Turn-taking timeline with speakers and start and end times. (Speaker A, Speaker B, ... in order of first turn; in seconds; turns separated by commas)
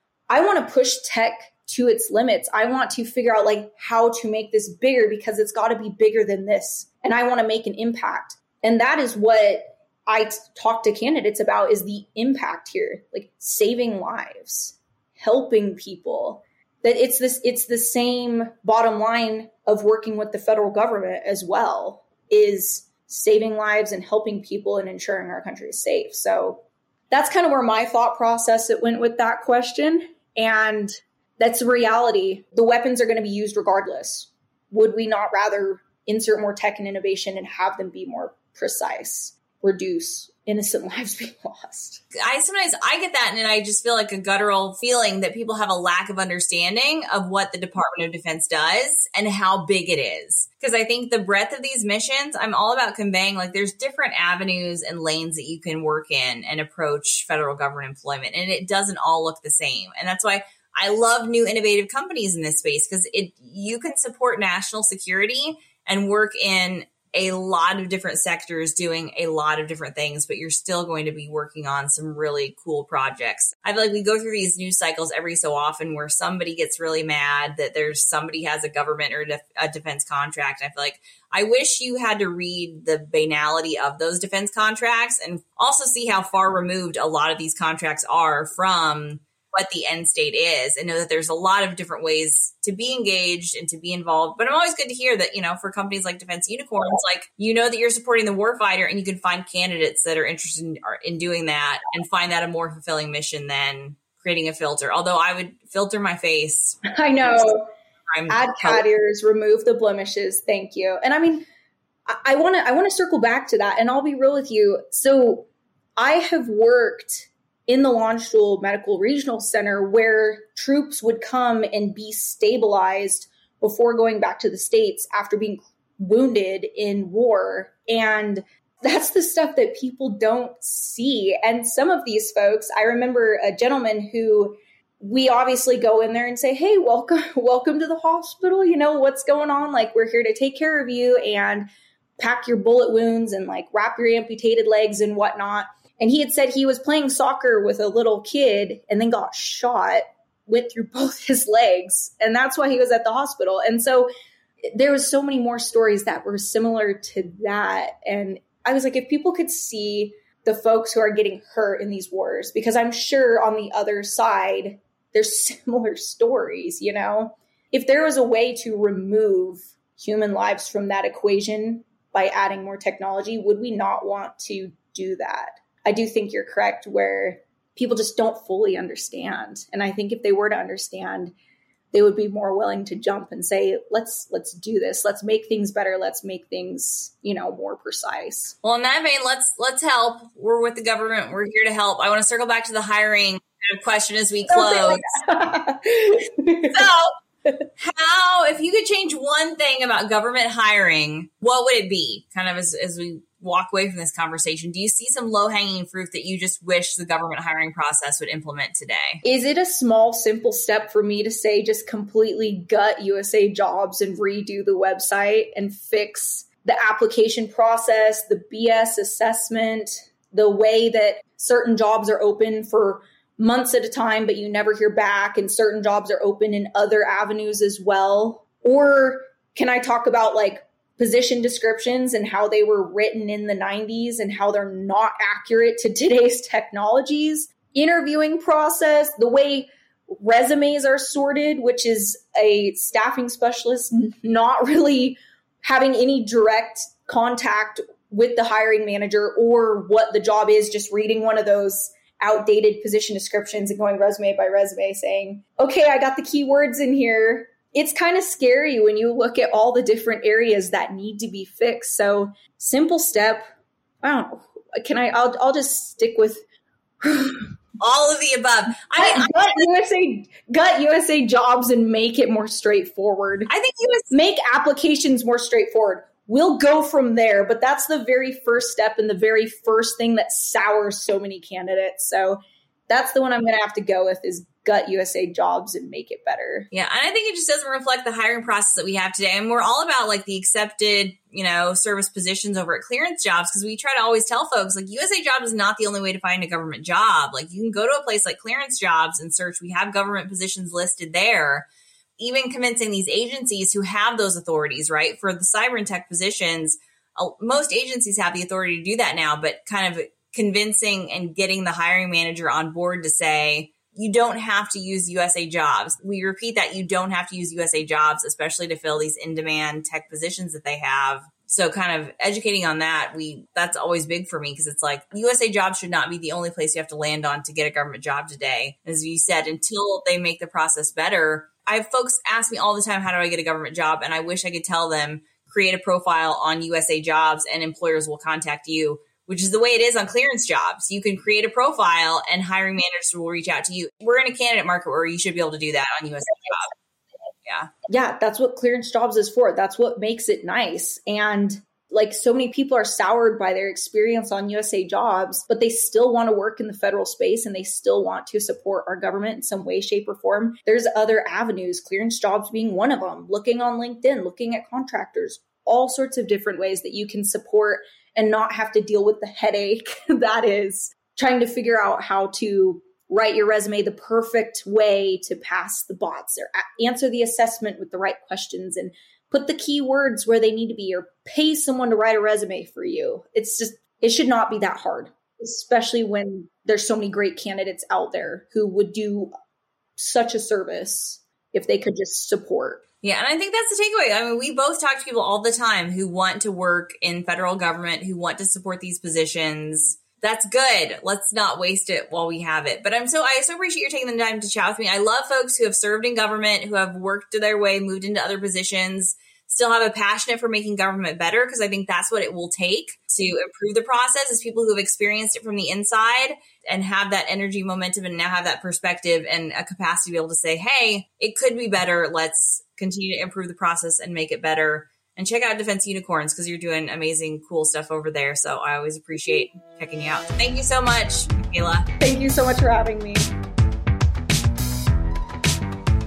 Speaker A: 0.3-42.0, Speaker B: 42.1-106.8, Speaker A: 106.9-107.7, Speaker B: 108.1-108.8, Speaker A: 108.3-111.5, Speaker A: 112.1-141.7, Speaker A: 142.2-154.1, Speaker A: 154.7-181.3, Speaker A: 181.9-188.6, Speaker B: 188.6-195.2, Speaker A: 194.5-196.8, Speaker B: 196.7-197.1, Speaker B: 197.8-209.2, Speaker A: 209.2-263.4, Speaker A: 264.0-266.4, Speaker A: 267.0-267.5, Speaker B: 267.8-269.6, Speaker A: 269.0-273.5, Speaker B: 273.5-274.1, Speaker A: 274.1-286.7, Speaker B: 286.7-346.7, Speaker B: 347.4-347.7, Speaker A: 347.9-389.3, Speaker A: 390.0-392.8, Speaker B: 393.0-431.9, Speaker A: 432.0-433.3